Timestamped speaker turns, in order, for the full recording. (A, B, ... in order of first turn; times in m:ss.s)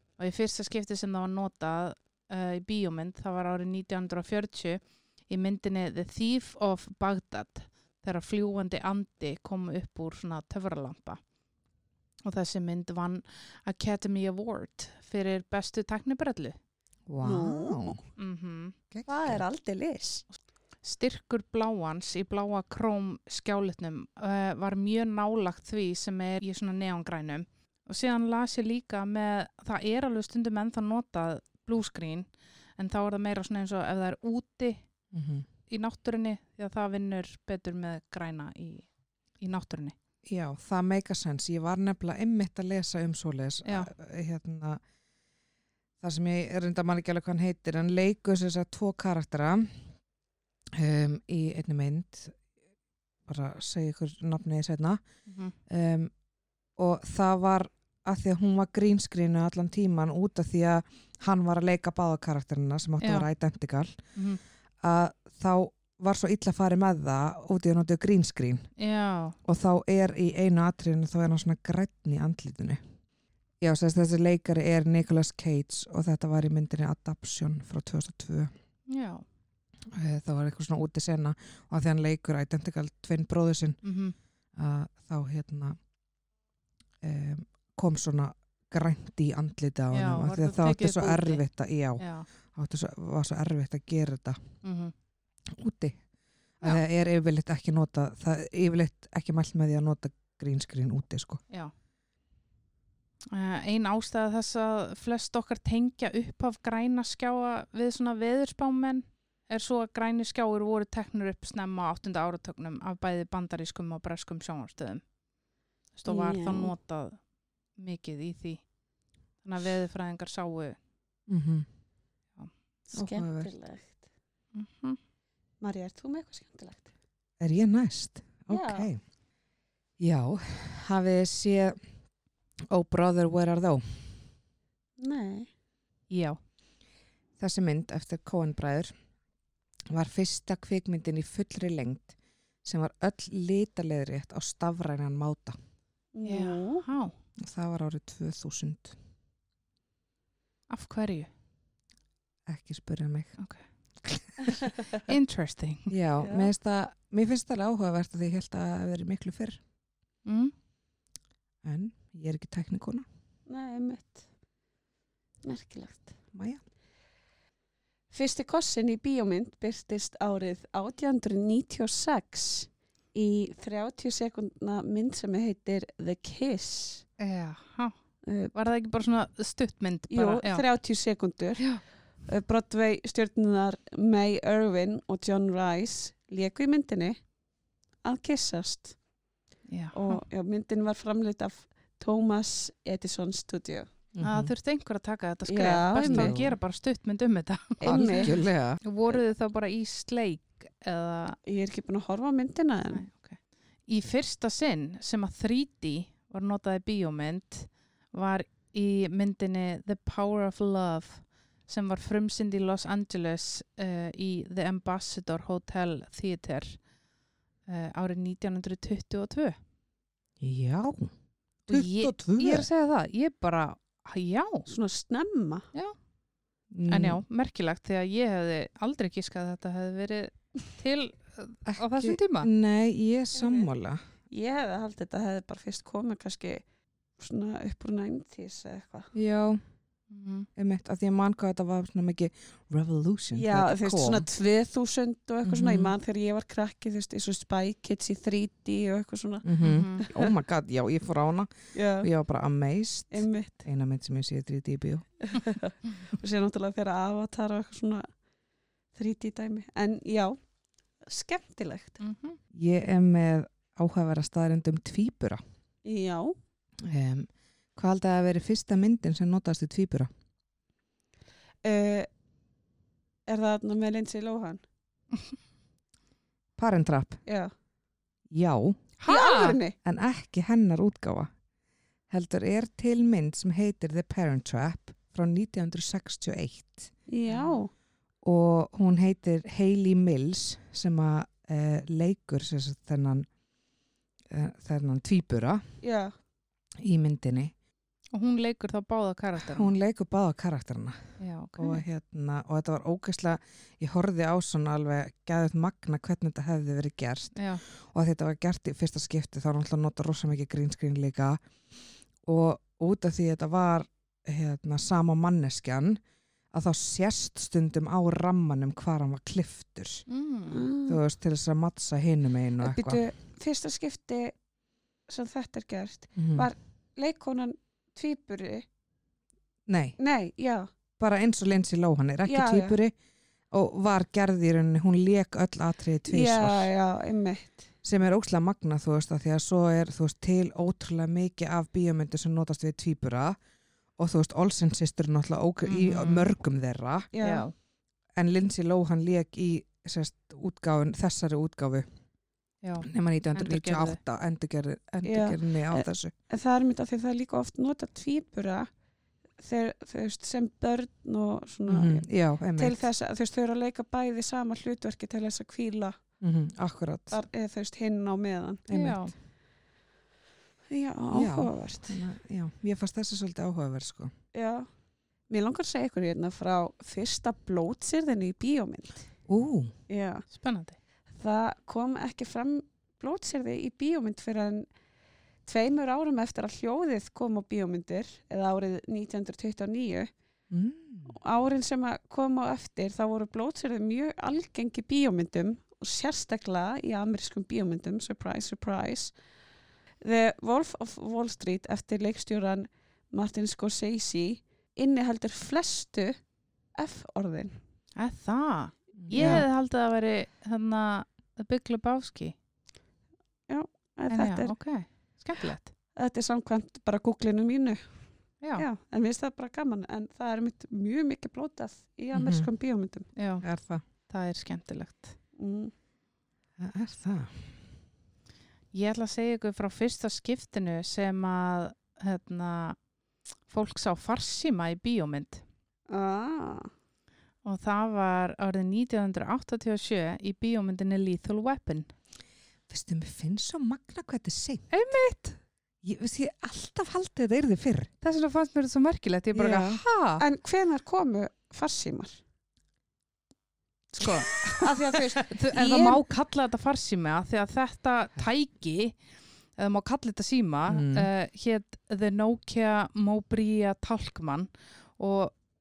0:00.2-0:11.2 A
0:12.2-0:16.6 A
0:17.1-0:18.0 B
0:17.2-0:18.0 C
0:18.2-0:18.7 A
0:18.9-0:19.4 B
0:19.0-0:20.2 C
0:20.8-0:34.8 A
0:35.1-0:35.4 B
0:35.7-0:39.9 A
0:40.2-0:44.8 B
0:43.6-0:43.9 A
0:46.0-0:49.8 B
0:50.8-0:52.4 B
0:53.3-0:55.0 B
0:55.3-0:55.5 A
0:55.7-0:56.1 B
0:56.8-1:04.0 B
1:03.0-1:03.3 A
1:04.2-1:04.4 A
1:04.8-1:08.6 B
1:08.8-1:09.4 A
1:09.4-1:12.8 B
1:13.6-1:18.5 B
1:18.9-1:19.2 A
1:19.9-1:23.8 B
1:23.8-1:24.1 A
1:24.5-1:25.8 B
1:27.0-1:34.4 B
1:29.9-1:31.4 A
1:32.0-1:32.3 A
1:34.6-1:34.9 A
1:35.5-1:36.0 B
1:36.6-1:41.4 B
1:43.3-1:55.0 A
1:55.9-1:57.2 A
1:56.1-1:56.7 C
1:57.7-1:58.6 A
1:59.4-2:00.8 A
2:01.3-2:01.7 B
2:02.9-2:04.0 C
2:02.9-2:03.5 B
2:04.5-2:05.0 A
2:05.6-2:06.9 C
2:07.4-2:09.0 B
2:08.5-2:08.9 C
2:10.0-2:11.8 B
2:12.7-2:14.1 B
2:15.0-2:15.5 C
2:16.1-2:16.4 A
2:17.4-2:18.9 B
2:19.9-2:25.6 B
2:26.1-2:26.8 C
2:26.2-2:27.1 A
2:27.4-2:29.0 B
2:30.7-2:31.3 A
2:32.5-2:33.4 B
2:34.0-2:34.6 B
2:35.0-2:35.9 A
2:35.9-2:39.6 B
2:36.2-2:36.5 C
2:40.2-2:40.5 A
2:41.6-2:43.0 B
2:43.5-2:44.2 C
2:45.4-2:46.1 C
2:46.3-2:46.6 B
2:48.1-2:57.0 C
2:57.2-2:57.9 A
2:58.2-2:58.5 C
2:58.5-3:00.6 A
3:00.1-3:01.7 C
3:02.3-3:07.2 C
3:08.0-3:09.0 C
3:09.7-3:10.2 A
3:09.9-3:13.9 C
3:14.1-3:14.5 B
3:14.2-3:18.3 A
3:15.5-3:16.3 C
3:16.0-3:16.6 B
3:17.8-3:18.3 C
3:17.8-3:18.8 B
3:18.8-3:21.4 A
3:21.4-3:23.0 C
3:22.9-3:36.8 A
3:37.7-3:39.6 A
3:40.4-3:41.1 B
3:41.7-3:42.7 B
3:41.7-3:44.7 A
3:44.7-3:45.7 C
3:46.7-3:47.2 B
3:46.9-3:52.5 A
3:51.6-3:54.0 B
3:53.3-3:53.7 C
3:54.3-3:56.6 C
3:57.2-3:59.1 C
3:59.1-3:59.6 B
4:00.1-4:00.5 A
4:00.6-4:04.3 B
4:03.3-4:10.3 C
4:05.4-4:05.9 B
4:09.4-4:15.0 B
4:09.6-4:10.0 A
4:11.7-4:12.1 C
4:13.1-4:13.6 C
4:15.3-4:18.0 C
4:18.9-4:20.4 C
4:21.0-4:22.0 C
4:22.0-4:22.4 A
4:22.5-4:25.4 B
4:25.8-4:26.3 C
4:26.8-4:30.1 B
4:31.6-4:32.1 C
4:33.3-4:34.6 C
4:36.6-4:37.2 B
4:37.2-4:37.5 C
4:38.3-4:38.9 B
4:39.0-4:39.6 A
4:39.1-4:39.8 C
4:39.8-4:41.3 B
4:42.1-4:46.9 B
4:47.1-4:47.7 C
4:47.3-4:47.6 A
4:48.2-4:53.2 B
4:54.3-4:55.6 B
4:55.8-4:56.1 C
4:56.8-4:57.5 B
4:58.1-4:59.7 A
4:59.5-5:11.4 B
5:01.2-5:01.8 A
5:07.3-5:07.6 A
5:12.2-5:16.0 B
5:16.5-5:20.0 B
5:20.1-5:20.6 A
5:20.5-5:21.0 C
5:20.9-5:23.0 B
5:22.6-5:24.3 C
5:25.1-5:28.6 C
5:26.2-5:26.5 B
5:29.7-5:30.0 B
5:30.0-5:30.7 C
5:31.0-5:32.9 B
5:32.2-5:32.8 C
5:33.5-5:36.7 B
5:36.1-5:37.6 C
5:37.8-5:43.4 B
5:44.0-5:47.1 B
5:45.6-5:46.2 A
5:47.1-5:47.4 C
5:47.2-5:47.5 A
5:48.1-5:51.8 B
5:52.6-5:54.0 A
5:52.8-5:56.1 B
5:55.0-5:58.7 C
5:59.4-6:06.0 C
6:01.7-6:02.8 B
6:06.2-6:07.2 B
6:07.1-6:08.7 C
6:08.7-6:09.1 B
6:08.7-6:09.1 A
6:10.7-6:12.0 C
6:11.1-6:14.1 B
6:14.3-6:14.7 C
6:15.3-6:19.1 C
6:19.3-6:19.7 B
6:19.9-6:20.2 C
6:20.3-6:20.8 A
6:21.1-6:24.6 C
6:25.5-6:30.1 C
6:30.5-6:31.2 B
6:31.1-6:39.1 C
6:40.0-6:46.1 C
6:46.8-6:47.5 C
6:48.0-6:52.3 A
6:49.0-6:49.5 B
6:53.5-6:54.5 C
6:54.1-6:55.7 A
6:56.0-6:57.8 C
6:58.6-7:03.0 C
7:02.1-7:02.5 B
7:03.2-7:03.4 A
7:03.4-7:03.8 B
7:04.1-7:05.1 A
7:05.4-7:05.7 C
7:06.6-7:07.4 B
7:08.7-7:12.8 A
7:13.5-7:15.4 A
7:15.9-7:16.7 C
7:17.4-7:21.9 A
7:22.7-7:24.7 B
7:24.7-7:25.4 A
7:25.8-7:27.9 B
7:28.0-7:29.8 A
7:29.3-7:30.2 B
7:30.2-7:32.2 C
7:33.9-7:34.3 A
7:34.0-7:36.0 C
7:35.3-7:39.0 A
7:39.6-7:45.3 A
7:40.7-7:41.1 B